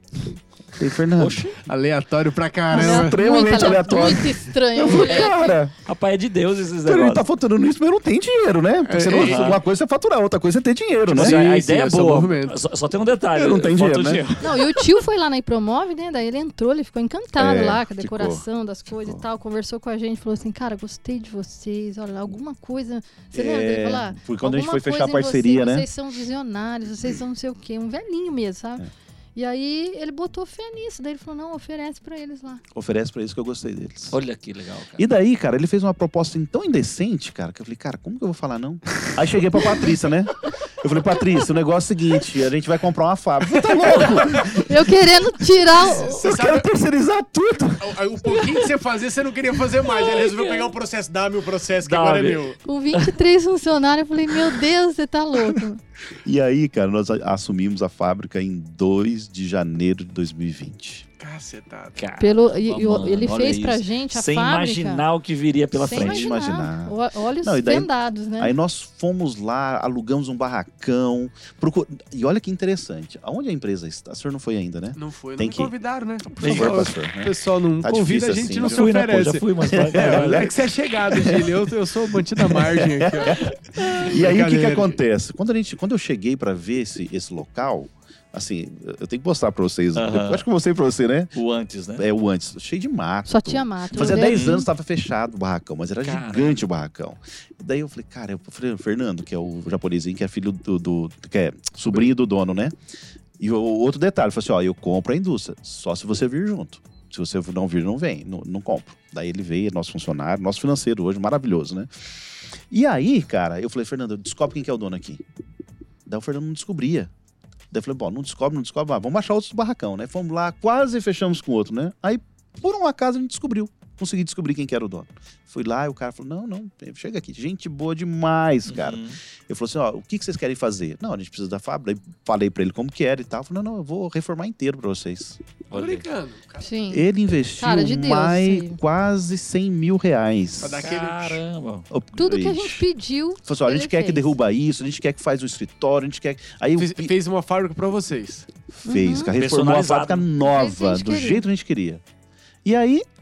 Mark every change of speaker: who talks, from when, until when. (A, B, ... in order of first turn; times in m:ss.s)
0:00.8-0:01.5 A
0:01.2-0:01.6 B
0:01.6-0:03.2 C
0:02.7-0:05.8 A
0:02.7-0:05.6 D
0:05.1-0:07.2 B
0:06.8-0:11.4 A
0:08.8-0:09.6 C
0:09.1-0:09.6 B
0:11.1-0:12.6 C
0:11.2-0:14.6 B
0:13.3-0:14.4 A
0:14.4-0:32.6 D
0:17.4-0:19.2 A
0:23.3-0:25.9 A
0:32.7-0:34.2 A
0:34.1-0:35.0 B
0:35.0-0:44.7 A
0:44.6-0:46.2 D
0:45.8-0:48.6 A
0:46.1-0:46.7 C
0:47.8-0:52.6 C
0:51.8-0:53.1 B
0:52.6-0:55.8 D
0:56.1-1:01.1 A
1:01.2-1:02.0 C
1:02.0-1:06.3 B
1:02.2-1:05.1 D
1:05.8-1:08.6 D
1:05.9-1:15.7 A
1:15.0-1:25.0 C
1:16.4-1:16.9 B
1:16.4-1:18.8 A
1:18.6-1:20.6 B
1:19.7-1:21.4 A
1:22.4-1:31.4 A
1:29.9-1:30.4 B
1:31.3-1:32.0 B
1:32.0-1:42.8 A
1:33.3-1:34.7 D
1:34.1-1:34.6 B
1:36.0-1:36.6 B
1:43.4-1:51.9 A
1:52.7-1:55.2 A
1:56.1-1:57.1 A
1:57.7-2:15.4 A
2:08.7-2:09.2 B
2:15.7-2:16.0 B
2:15.7-2:16.7 C
2:16.6-2:18.8 D
2:16.9-2:20.9 A
2:20.6-2:21.4 C
2:20.8-2:21.9 B
2:21.9-2:22.9 A
2:22.2-2:24.4 D
2:23.4-2:27.1 A
2:26.8-2:28.5 C
2:28.7-2:32.0 A
2:28.8-2:29.4 D
2:29.4-2:30.3 B
2:30.4-2:31.4 D
2:32.6-2:33.1 A